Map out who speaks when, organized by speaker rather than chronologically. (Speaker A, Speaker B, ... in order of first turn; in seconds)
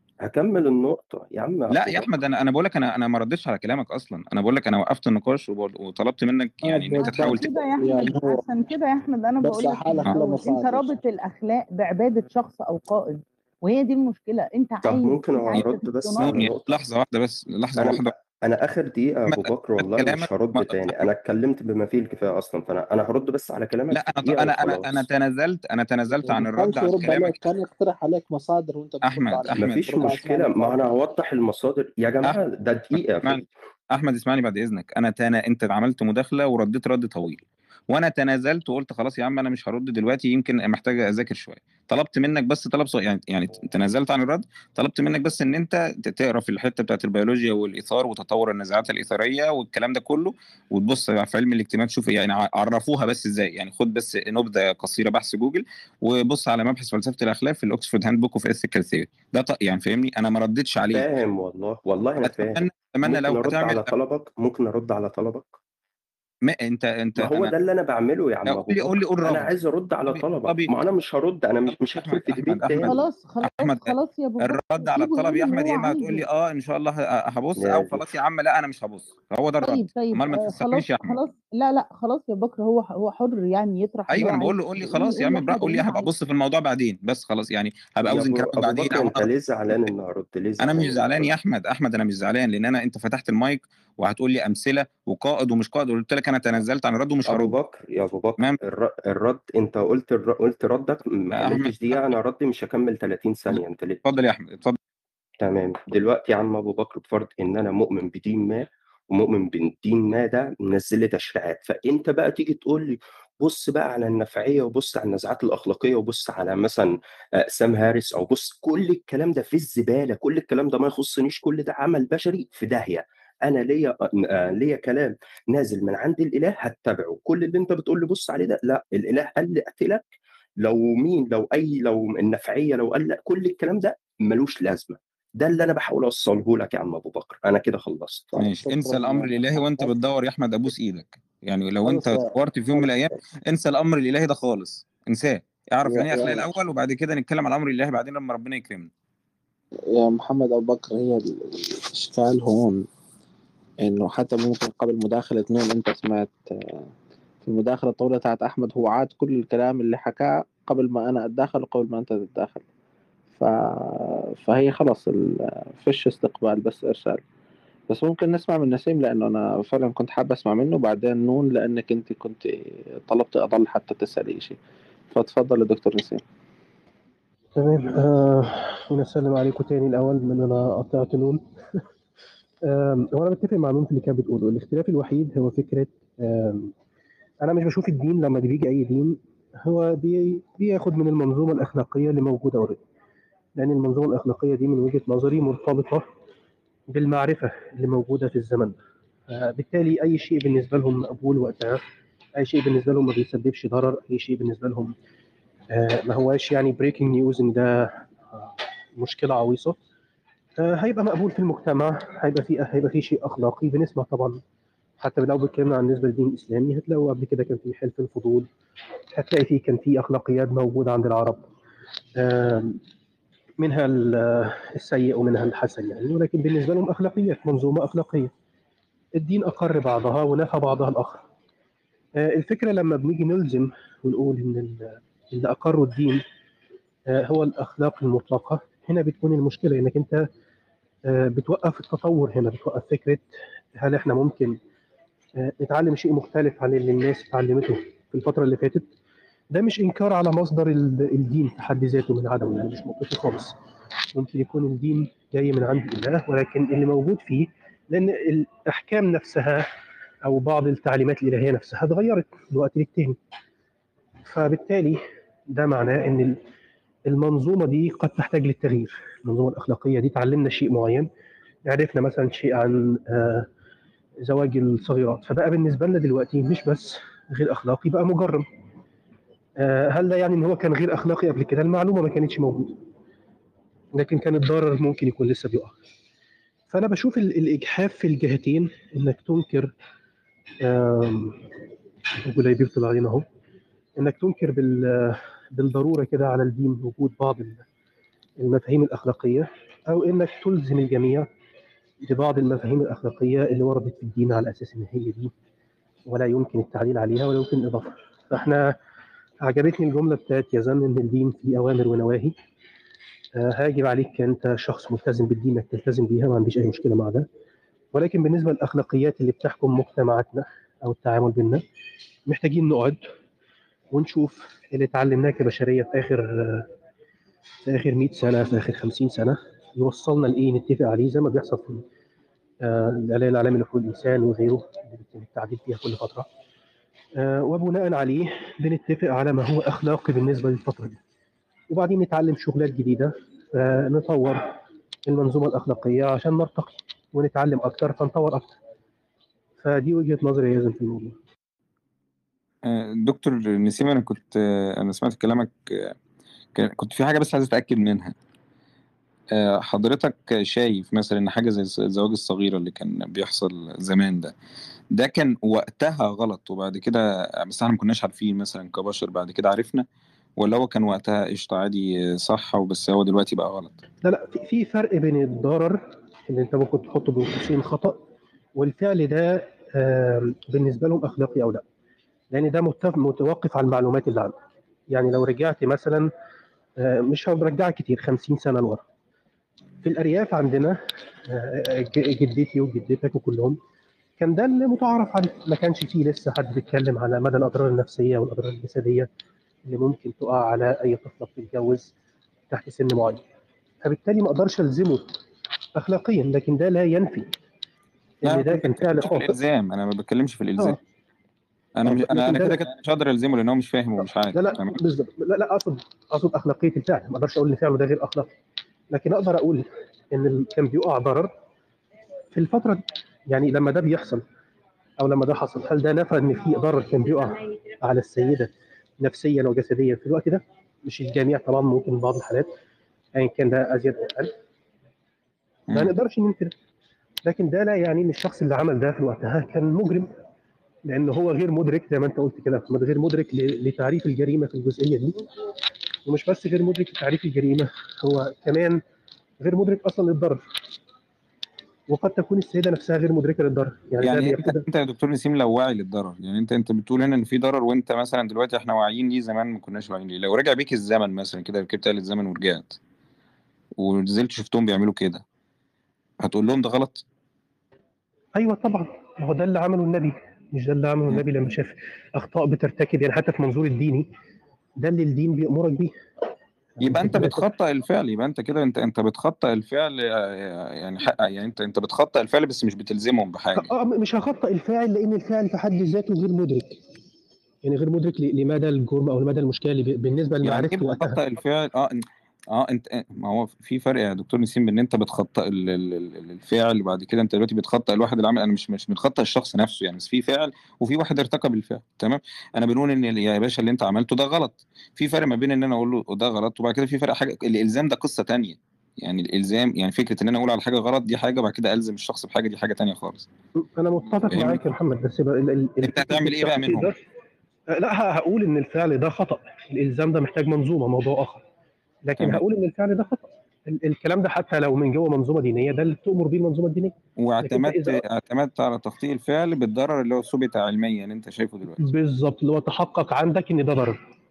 Speaker A: 0.2-2.1, 14.8-16.7, 17.8-25.1, 29.6-33.5, 60.9-65.5, 67.2-73.0, 77.6-78.1, 88.1-91.3, 97.3-104.0, 105.4-138.3
Speaker B: 1.7-7.5, 16.2-18.1, 19.3-21.0, 23.9-27.4, 29.0-30.2, 33.0-61.1, 62.2-63.9, 66.4-67.5, 68.5-69.5, 70.1-70.7, 71.7-81.2, 84.1-89.3, 90.6-97.5, 101.3-102.2, 104.0-104.8, 138.4-148.9, 352.6-356.0, 356.6-358.1, 359.3-364.3, 364.9-369.9, 370.4-373.8, 408.3-410.8, 411.8-414.8, 454.0-462.8, 463.8-465.2, 466.2-467.0, 476.8-483.7, 490.4-513.3, 514.3-514.7, 515.8-516.9, 527.2-531.9
Speaker C: 6.6-8.4, 9.4-10.9, 26.1-30.9, 138.3-139.9, 141.8-143.0, 145.9-146.5, 149.9-152.8, 153.8-156.9, 157.4-162.6, 163.4-167.2, 167.9-174.6, 175.1-176.2
Speaker D: 7.0-16.4, 72.8-76.2, 79.6-86.1
Speaker E: 177.6-181.8, 182.7-186.7, 187.4-192.8, 193.6-196.0, 196.9-198.8, 199.3-201.8, 202.4-204.9, 205.7-209.8, 210.6-214.4, 215.0-218.5, 219.1-221.5, 222.2-222.8, 223.6-228.3, 229.2-231.2, 232.2-236.2, 237.1-240.2, 241.1-244.6, 245.4-248.9, 249.5-253.5, 254.1-259.6, 260.2-263.2, 264.3-266.4, 267.1-271.1, 271.6-273.5, 274.2-278.5, 279.6-282.8, 283.9-285.7, 286.7-289.7, 290.6-291.4, 292.2-293.3, 294.0-297.6, 298.4-301.3, 302.0-305.3, 306.1-308.8, 309.4-312.4, 313.4-317.3, 317.9-321.6, 322.3-323.0, 323.9-326.7, 327.7-331.9, 332.6-336.3, 337.2-341.0, 341.7-348.6, 349.6-351.2, 374.0-378.0, 378.6-381.6, 382.3-384.3, 384.9-386.1, 386.8-388.8, 389.8-393.6, 394.2-399.1, 399.6-401.9, 402.5-403.2, 403.8-405.1, 405.8-407.3, 408.2-409.3, 411.9-412.6, 414.3-418.3, 418.9-421.3, 422.3-424.2, 425.0-432.5, 433.2-434.3, 435.7-436.5, 437.2-440.1, 440.9-445.3, 446.1-448.8, 449.4-450.4, 451.9-454.6, 468.4-474.1, 474.8-475.9, 476.8-477.5, 483.6-486.8, 487.6-491.2, 513.6-517.0, 517.7-521.4, 522.0-528.0, 531.8-534.0